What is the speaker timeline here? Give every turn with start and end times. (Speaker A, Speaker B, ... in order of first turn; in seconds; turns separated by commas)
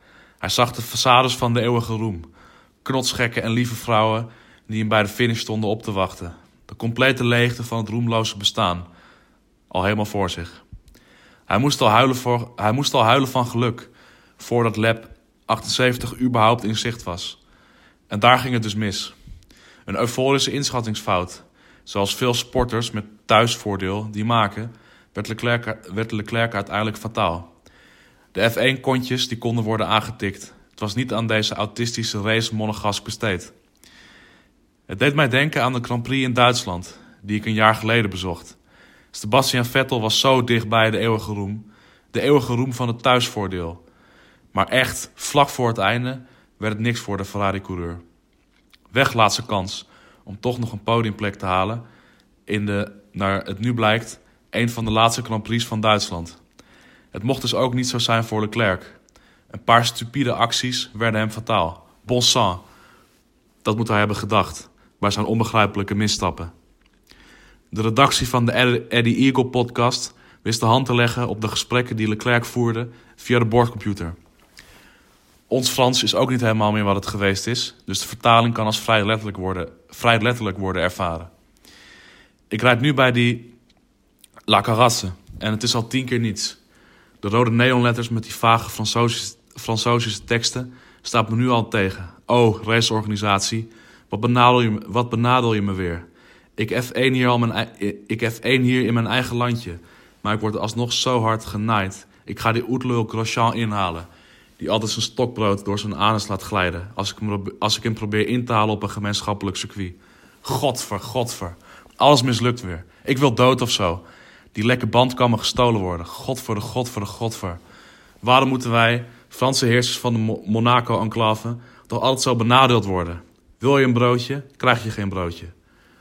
Speaker A: 0.4-2.3, Speaker A: 2.8-8.9, Speaker A: 9.7-10.6, Speaker A: 11.5-17.4, Speaker A: 18.1-19.1, Speaker A: 19.9-27.5, Speaker A: 28.3-33.5, Speaker A: 34.9-38.6, Speaker A: 39.1-43.8, Speaker A: 44.5-48.0, Speaker A: 48.9-51.8, Speaker A: 52.5-56.4, Speaker A: 57.1-59.0, Speaker A: 59.5-62.6, Speaker A: 63.6-66.5, Speaker A: 67.7-74.1, Speaker A: 75.5-81.3, Speaker A: 82.5-83.5, Speaker A: 84.5-86.6, Speaker A: 87.2-104.1, Speaker A: 104.6-117.6, Speaker A: 118.2-125.5